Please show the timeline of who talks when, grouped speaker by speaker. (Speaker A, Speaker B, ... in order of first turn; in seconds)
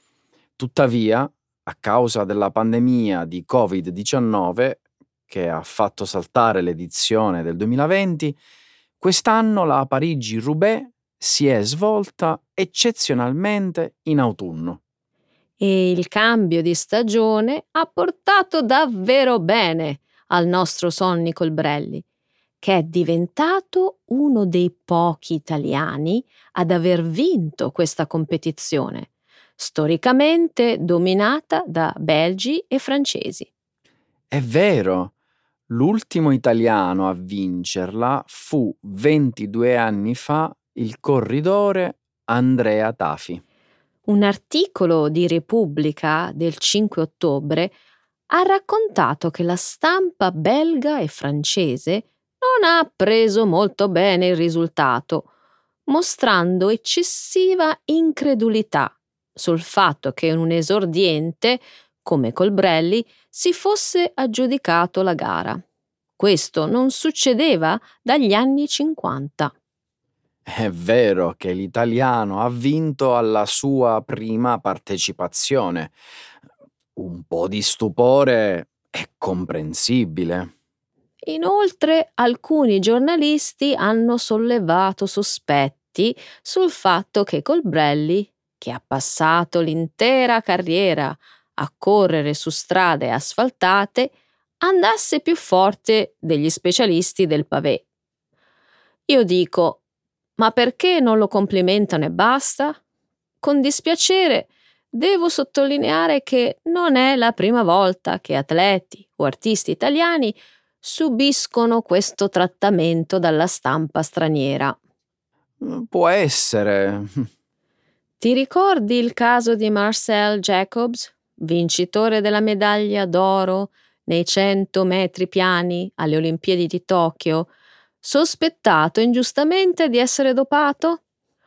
Speaker A: 0.6-8.4, 9.0-14.8, 34.3-35.1, 35.7-43.4, 70.5-75.9, 77.0-80.5, 115.6-117.3
Speaker B: 15.6-22.0, 22.6-33.5, 44.1-47.7, 48.3-55.3, 55.9-65.6, 66.2-69.5, 81.2-97.8, 99.1-99.8, 100.4-102.8, 103.4-114.8, 118.2-127.5, 128.0-131.0